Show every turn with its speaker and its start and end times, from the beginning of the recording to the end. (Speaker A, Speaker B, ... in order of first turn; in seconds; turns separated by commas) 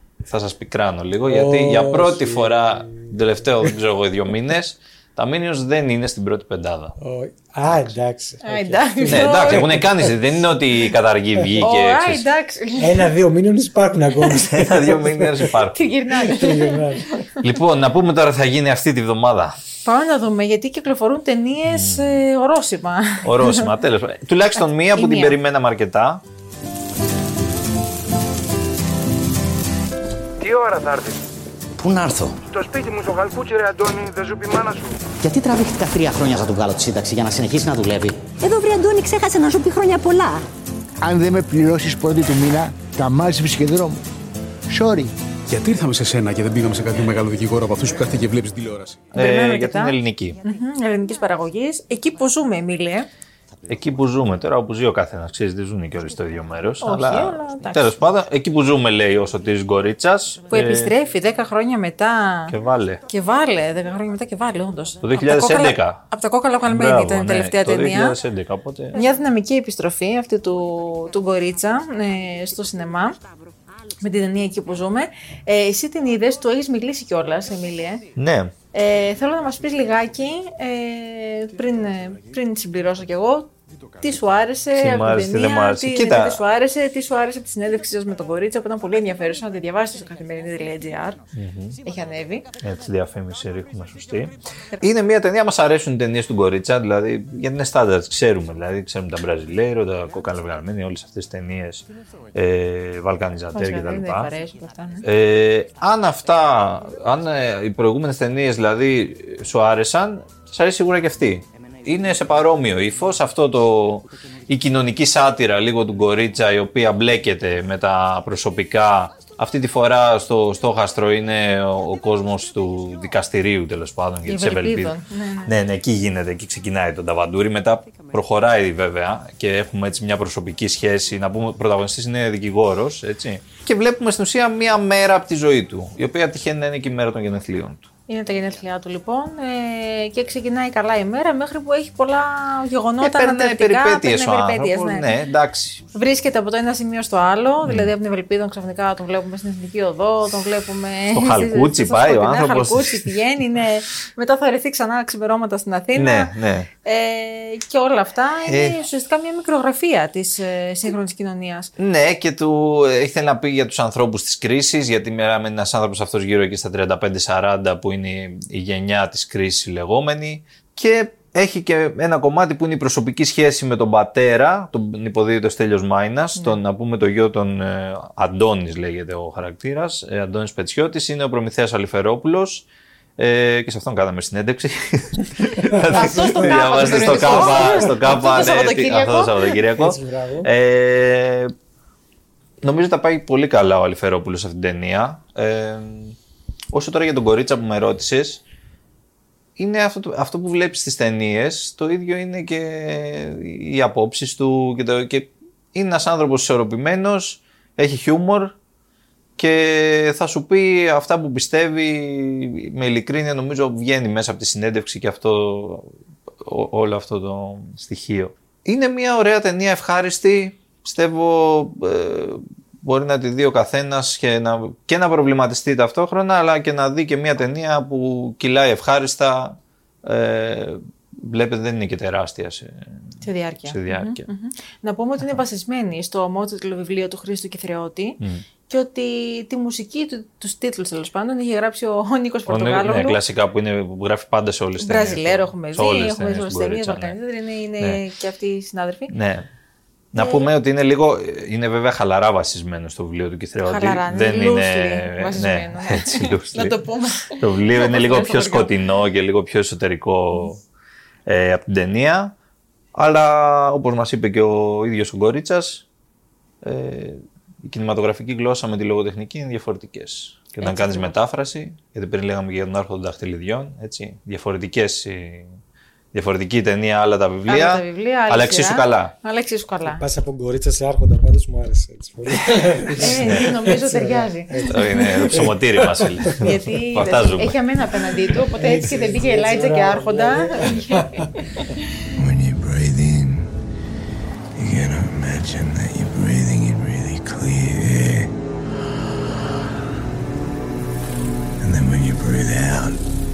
Speaker A: 0.3-6.9, Speaker B: 1.2-3.7, Speaker B: 7.0-10.3, Speaker C: 8.4-9.8, Speaker A: 9.1-12.2, Speaker B: 11.4-11.7, Speaker C: 11.6-13.1, Speaker B: 12.8-15.5, Speaker A: 14.5-15.9, Speaker C: 15.7-17.4, Speaker B: 16.2-17.1, Speaker A: 17.4-19.6, Speaker C: 19.8-23.7, Speaker A: 21.7-22.1, Speaker A: 23.2-26.2, Speaker C: 24.9-25.4, Speaker D: 30.4-31.2, Speaker E: 31.8-32.4, Speaker D: 32.5-34.9, Speaker E: 35.2-38.2, Speaker F: 38.4-40.4, Speaker G: 41.0-44.0, Speaker G: 44.7-45.1, Speaker H: 45.5-49.1, Speaker A: 49.1-50.4, Speaker C: 49.1-53.1, Speaker A: 53.7-60.9, Speaker C: 56.8-57.9, Speaker C: 60.5-62.5, Speaker A: 62.5-63.0, Speaker C: 63.1-68.2, Speaker A: 65.0-66.0, Speaker A: 66.7-69.0, Speaker C: 68.9-73.2, Speaker C: 74.0-78.1, Speaker A: 78.2-78.5, Speaker C: 78.7-91.2, Speaker A: 84.8-86.4, Speaker A: 91.3-91.8, Speaker C: 91.8-92.5, Speaker A: 92.6-104.3, Speaker C: 103.5-105.0, Speaker A: 105.0-124.9, Speaker C: 124.2-125.5, Speaker A: 125.5-137.9, Speaker C: 138.1-145.1, Speaker A: 143.0-145.8, Speaker C: 145.9-161.7, Speaker A: 147.7-147.9, Speaker A: 151.1-153.1, Speaker A: 155.9-156.7, Speaker A: 158.4-158.8, Speaker A: 161.8-182.7, Speaker A: 183.2-191.5, Speaker B: 185.6-187.9, Speaker C: 185.9-189.5, Speaker B: 189.6-190.5, Speaker A: 192.6-196.2, Speaker A: 196.7-198.4, Speaker A: 199.6-208.5, Speaker A: 209.4-215.9, Speaker A: 216.4-233.2, Speaker C: 233.2-243.2, Speaker A: 233.7-234.2, Speaker A: 242.5-247.2, Speaker C: 244.8-249.1, Speaker A: 249.1-249.5, Speaker A: 250.1-256.8, Speaker C: 250.1-250.5, Speaker C: 253.6-258.7, Speaker A: 257.4-260.6, Speaker A: 261.3-262.3, Speaker A: 262.9-265.8, Speaker A: 266.6-275.6, Speaker C: 270.6-271.1, Speaker A: 276.1-279.1, Speaker C: 277.5-280.0, Speaker B: 279.8-286.5, Speaker C: 283.0-284.7, Speaker A: 284.7-287.6, Speaker C: 286.4-291.6, Speaker B: 288.5-291.3, Speaker I: 292.1-293.5, Speaker I: 294.6-298.3, Speaker I: 301.6-303.0